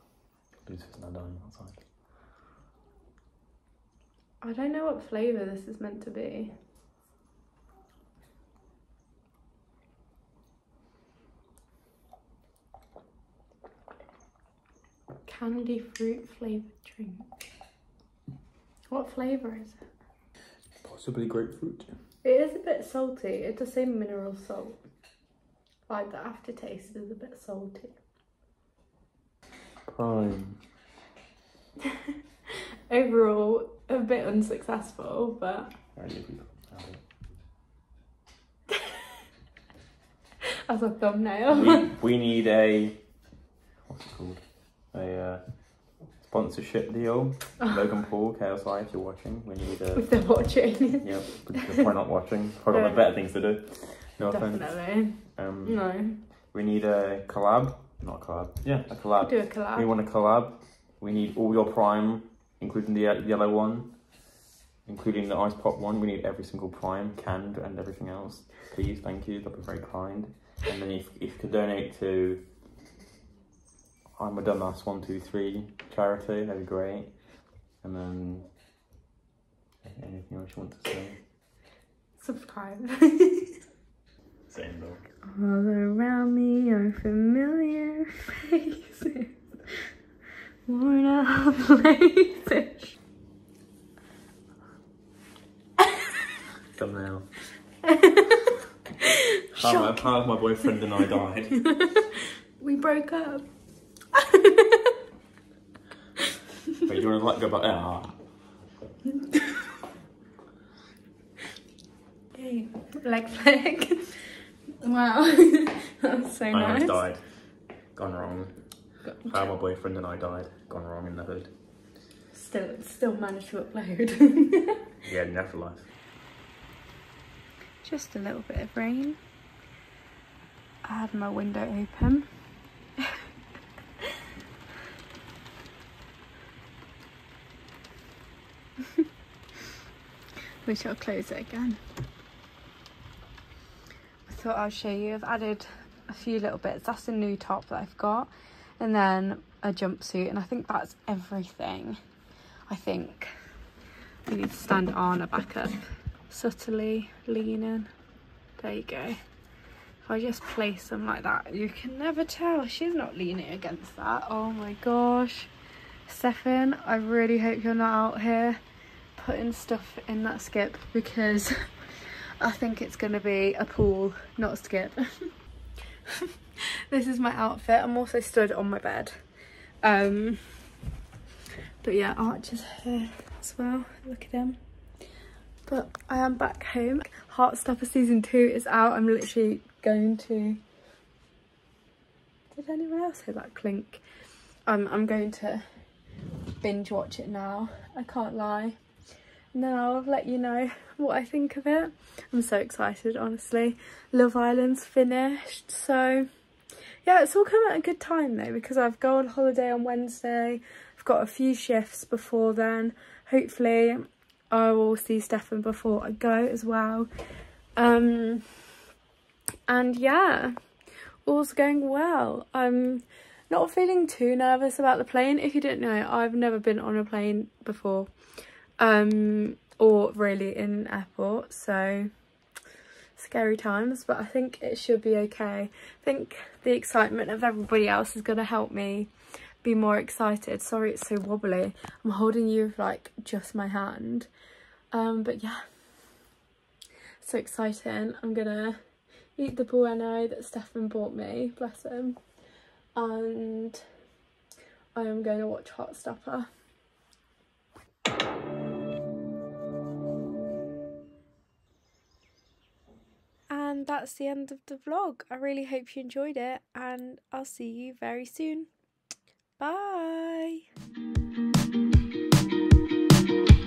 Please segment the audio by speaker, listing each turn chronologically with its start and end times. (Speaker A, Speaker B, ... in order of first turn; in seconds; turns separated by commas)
Speaker A: 0.6-1.8, Speaker B: 4.4-6.5, Speaker B: 15.2-17.3, Speaker B: 18.9-19.8, Speaker A: 20.8-21.9, Speaker B: 22.2-24.8, Speaker B: 25.9-28.0, Speaker A: 29.8-30.6, Speaker B: 32.9-35.7, Speaker A: 35.9-37.0, Speaker B: 40.7-41.9, Speaker A: 41.5-43.2, Speaker A: 43.8-50.2, Speaker B: 50.0-51.8, Speaker A: 51.0-64.3, Speaker B: 52.7-53.1, Speaker B: 54.2-56.2, Speaker B: 59.2-59.9, Speaker A: 64.8-72.5, Speaker A: 74.2-78.5, Speaker A: 79.8-81.2, Speaker B: 82.2-83.6, Speaker A: 84.5-85.0, Speaker B: 85.2-89.7, Speaker B: 90.7-93.0, Speaker A: 96.7-97.3, Speaker B: 97.8-98.5, Speaker A: 99.5-101.8, Speaker B: 99.5-100.7, Speaker B: 101.7-102.0, Speaker B: 102.6-103.5, Speaker B: 104.1-104.9, Speaker A: 106.8-108.2, Speaker B: 112.3-117.0, Speaker A: 116.5-121.5, Speaker B: 119.0-119.5, Speaker B: 122.3-124.8, Speaker A: 125.0-125.9, Speaker B: 127.8-129.2, Speaker B: 130.8-132.3, Speaker B: 140.6-141.8, Speaker B: 144.3-152.0, Speaker B: 152.7-153.3, Speaker B: 154.3-157.9, Speaker B: 158.6-159.2, Speaker B: 160.0-165.5, Speaker B: 166.1-168.6, Speaker B: 169.2-175.3, Speaker B: 176.9-179.2, Speaker B: 179.8-180.7, Speaker B: 181.8-184.6, Speaker B: 185.7-190.6, Speaker B: 192.5-194.0, Speaker B: 194.7-195.7, Speaker B: 196.6-198.8, Speaker B: 199.5-206.3, Speaker B: 207.0-217.1, Speaker B: 217.8-218.7, Speaker B: 219.7-220.6, Speaker B: 221.2-228.1, Speaker B: 228.8-232.1, Speaker B: 233.1-239.1, Speaker B: 239.6-244.3, Speaker B: 244.9-245.6, Speaker B: 247.2-248.8, Speaker B: 249.3-252.2, Speaker B: 252.9-253.9, Speaker B: 254.9-256.5, Speaker B: 263.5-268.7, Speaker B: 269.6-270.6